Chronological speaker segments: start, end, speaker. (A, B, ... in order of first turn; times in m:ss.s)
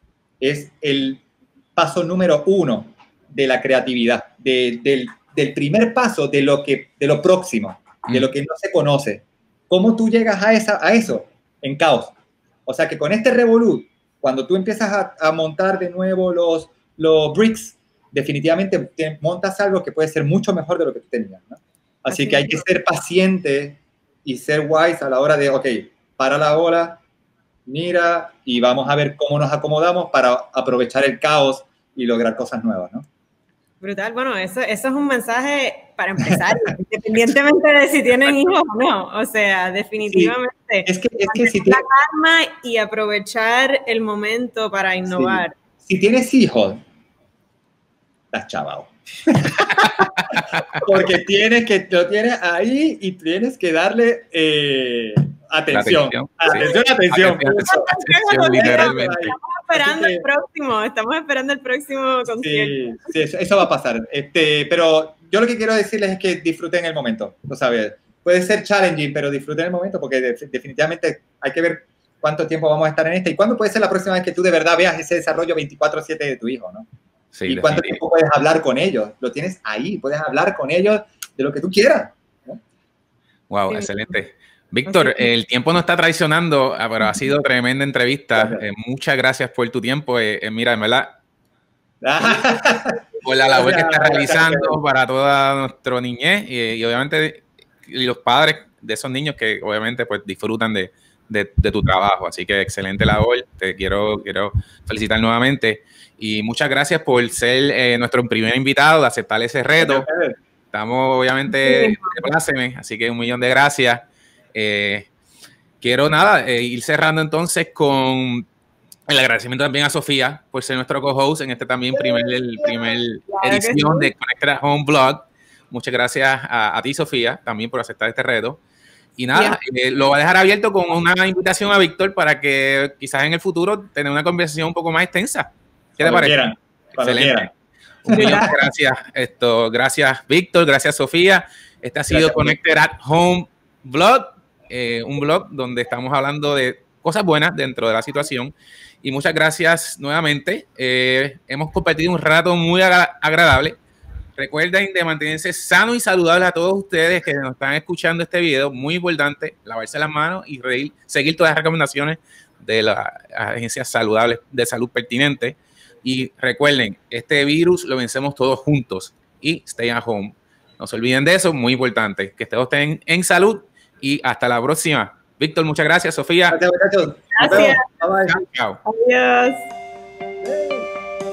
0:00.4-0:01.2 A
0:01.8-0:12.1 A
0:12.6-0:27.0 A
0:22.1-0:22.6 B
0:27.6-0:33.0 A
0:33.8-0:45.5 B
0:40.0-0:41.8 A
0:45.1-0:46.8 A
0:48.3-0:57.9 A
0:49.6-0:50.8 C
0:55.7-0:59.3 C
0:56.5-0:56.8 B
0:57.6-1:02.9 B
0:58.5-1:00.3 A
1:02.4-1:16.9 A
1:17.3-1:18.0 C
1:17.4-1:22.6 A
1:23.5-1:31.2 C
1:23.7-1:24.1 B
1:24.9-1:25.3 B
1:28.3-1:28.6 A
1:32.0-1:33.0 A
1:33.2-1:50.1 C
1:33.5-1:34.8 A
1:49.8-1:50.4 A
1:50.7-1:55.1 C
1:51.5-1:52.3 B
1:55.8-1:58.4 C
1:59.1-2:08.6 C
2:01.9-2:04.1 B
2:09.2-2:16.3 C
2:16.0-2:17.5 A
2:17.0-2:17.5 C
2:18.0-2:33.8 C
2:18.1-2:18.6 A
2:18.1-2:18.5 B
2:22.1-2:22.6 A
2:34.4-2:56.6 C
2:56.5-2:58.4 A
2:57.4-2:57.8 B
2:58.3-2:58.8 C
2:58.8-2:59.7 B
3:00.4-3:00.9 A